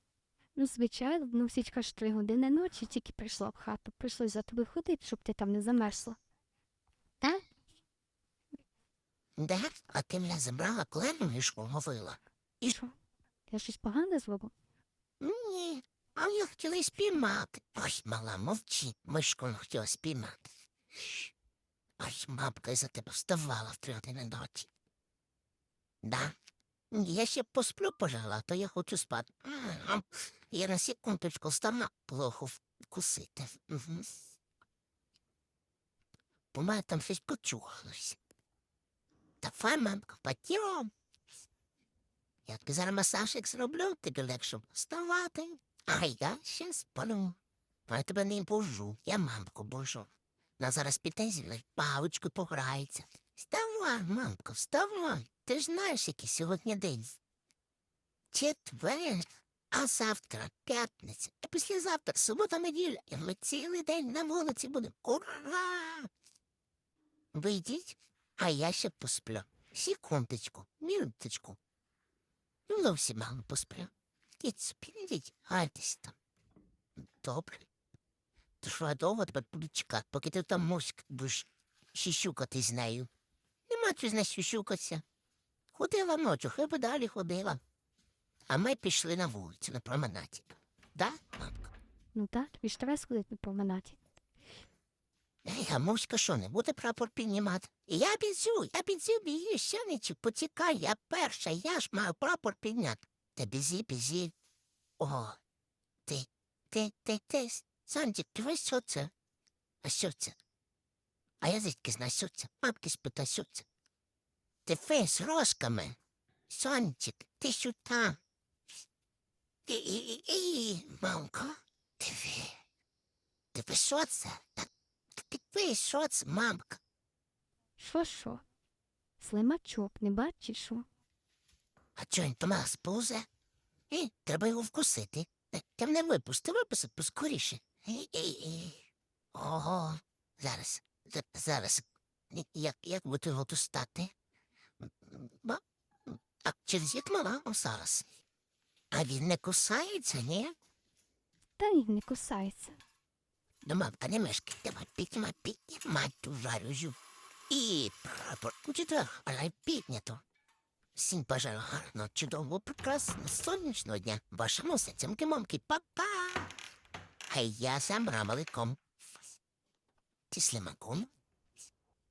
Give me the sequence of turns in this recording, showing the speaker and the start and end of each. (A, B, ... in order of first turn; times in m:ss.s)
0:00.5-0:06.2 A
0:09.4-0:12.8 B
0:13.5-0:14.5 A
0:15.2-0:21.3 B
0:22.0-0:24.7 B
0:26.0-0:26.3 B
0:26.9-0:34.1 B
0:36.5-0:38.2 B
0:39.4-0:40.9 B
0:42.5-0:47.4 B
0:47.9-0:57.2 B
0:58.3-1:06.1 B
1:07.3-1:11.6 B
1:12.7-1:16.1 B
1:17.2-1:17.7 B
1:18.6-1:23.1 B
1:23.7-1:25.0 B
1:25.7-1:27.6 B
1:28.5-1:31.7 B
1:32.1-1:34.0 A
1:35.4-1:44.3 B
1:45.0-1:45.4 B
1:46.0-1:49.1 B
1:49.8-1:50.4 B
1:51.4-1:53.6 B
1:54.6-1:56.0 B
1:56.5-1:58.2 B
1:59.7-2:02.6 B
2:03.5-2:06.8 B
2:07.8-2:08.4 A
2:09.2-2:10.8 A
2:12.0-2:13.2 B
2:13.9-2:18.8 B
2:19.3-2:24.1 B
2:24.8-2:28.1 B
2:28.9-2:30.5 B
2:31.6-2:32.8 A
2:33.6-2:37.0 B
2:37.5-2:40.2 B
2:41.0-2:46.5 B
2:47.3-2:48.8 B
2:50.3-2:51.1 B